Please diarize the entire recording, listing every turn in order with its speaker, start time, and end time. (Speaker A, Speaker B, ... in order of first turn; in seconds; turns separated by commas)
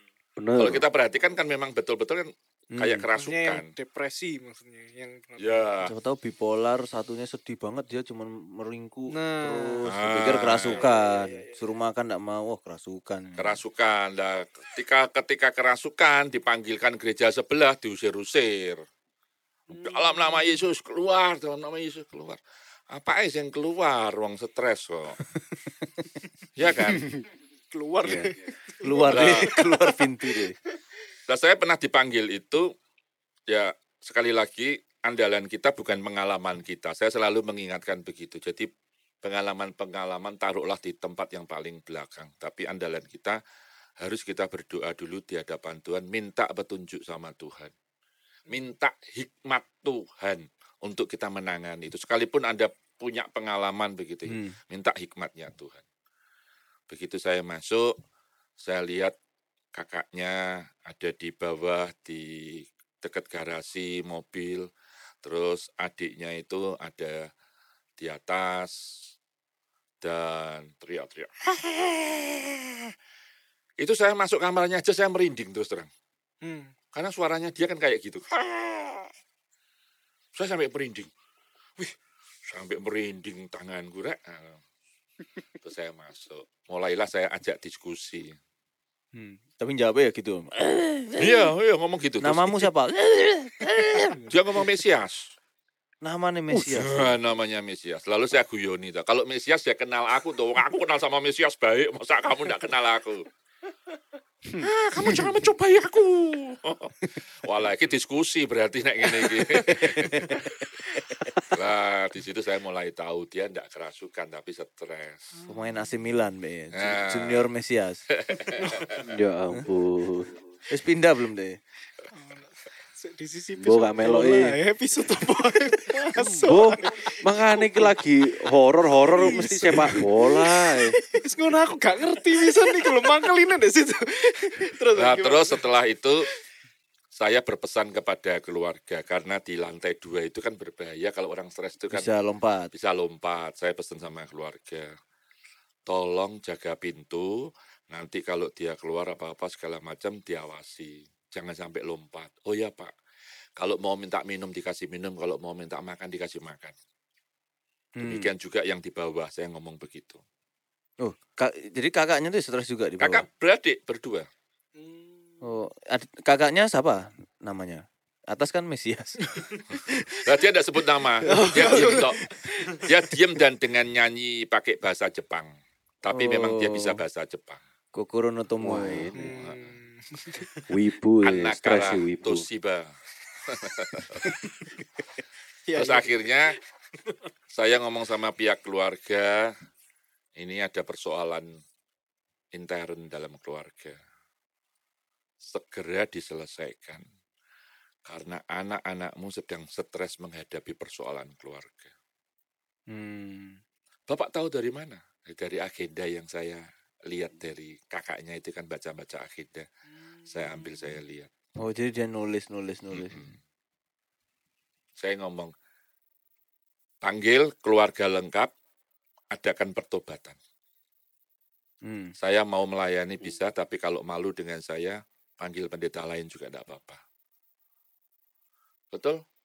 Speaker A: 0.4-0.8, Speaker B: 0.6-3.7, Speaker C: 2.7-3.1, Speaker D: 3.1-5.7, Speaker B: 5.4-5.9, Speaker C: 5.8-13.6, Speaker D: 9.1-9.8, Speaker B: 9.9-10.9, Speaker D: 10.7-11.6, Speaker B: 13.4-18.8, Speaker D: 19.7-20.6, Speaker B: 19.8-22.4, Speaker B: 22.9-25.2, Speaker B: 26.6-27.0, Speaker D: 27.7-30.5, Speaker A: 28.1-28.3, Speaker C: 28.8-30.6, Speaker B: 29.1-29.5, Speaker B: 31.3-32.7, Speaker B: 33.5-38.7, Speaker B: 39.2-43.4, Speaker B: 44.0-47.7, Speaker B: 48.5-55.8, Speaker C: 54.3-54.6, Speaker B: 56.9-57.9, Speaker B: 58.6-59.1, Speaker B: 59.8-64.7, Speaker B: 65.2-67.3, Speaker B: 68.0-68.8, Speaker B: 70.0-72.9, Speaker B: 73.8-75.9, Speaker D: 76.4-76.7, Speaker B: 76.9-79.1, Speaker B: 80.3-81.1, Speaker B: 82.5-84.6, Speaker B: 85.6-88.4, Speaker C: 89.1-91.5, Speaker B: 91.2-92.7, Speaker C: 92.2-94.2, Speaker B: 94.3-95.3, Speaker C: 96.0-97.2, Speaker B: 96.5-103.3, Speaker B: 104.6-110.4, Speaker C: 110.1-110.5, Speaker B: 111.5-115.3, Speaker D: 115.3-115.9, Speaker C: 115.5-118.0, Speaker B: 116.7-117.5, Speaker B: 118.2-119.0, Speaker D: 118.6-119.1, Speaker A: 119.0-120.3, Speaker C: 120.7-121.6, Speaker D: 122.1-128.0, Speaker A: 123.6-124.6, Speaker A: 126.2-130.9, Speaker D: 129.1-135.7, Speaker B: 135.0-136.3, Speaker B: 137.2-142.1, Speaker C: 141.9-142.7, Speaker B: 142.7-144.9, Speaker B: 145.9-152.9, Speaker B: 153.6-156.7, Speaker C: 158.0-158.3, Speaker B: 158.0-160.2, Speaker C: 161.0-163.3, Speaker B: 163.0-164.3, Speaker D: 164.8-165.5, Speaker C: 165.4-169.9, Speaker B: 170.2-172.2, Speaker D: 171.2-172.9, Speaker C: 171.4-172.1, Speaker B: 172.8-175.5, Speaker B: 176.0-177.6, Speaker C: 176.1-177.0, Speaker C: 177.9-179.1, Speaker A: 178.6-179.3, Speaker D: 179.1-180.5, Speaker B: 179.2-179.7, Speaker A: 180.7-182.4, Speaker B: 181.2-182.9, Speaker B: 183.5-184.3, Speaker D: 185.7-186.6, Speaker B: 185.8-186.6, Speaker B: 187.5-189.5, Speaker B: 190.4-191.6, Speaker B: 192.5-194.0, Speaker B: 195.4-197.0, Speaker B: 198.1-201.9, Speaker C: 202.9-203.6, Speaker B: 204.1-209.7, Speaker D: 209.9-211.0, Speaker B: 210.3-211.3, Speaker C: 211.6-213.2, Speaker B: 212.9-213.3, Speaker B: 215.0-215.5, Speaker B: 217.0-218.5, Speaker B: 219.3-220.4, Speaker C: 221.9-222.1, Speaker B: 222.2-227.0, Speaker B: 228.9-229.2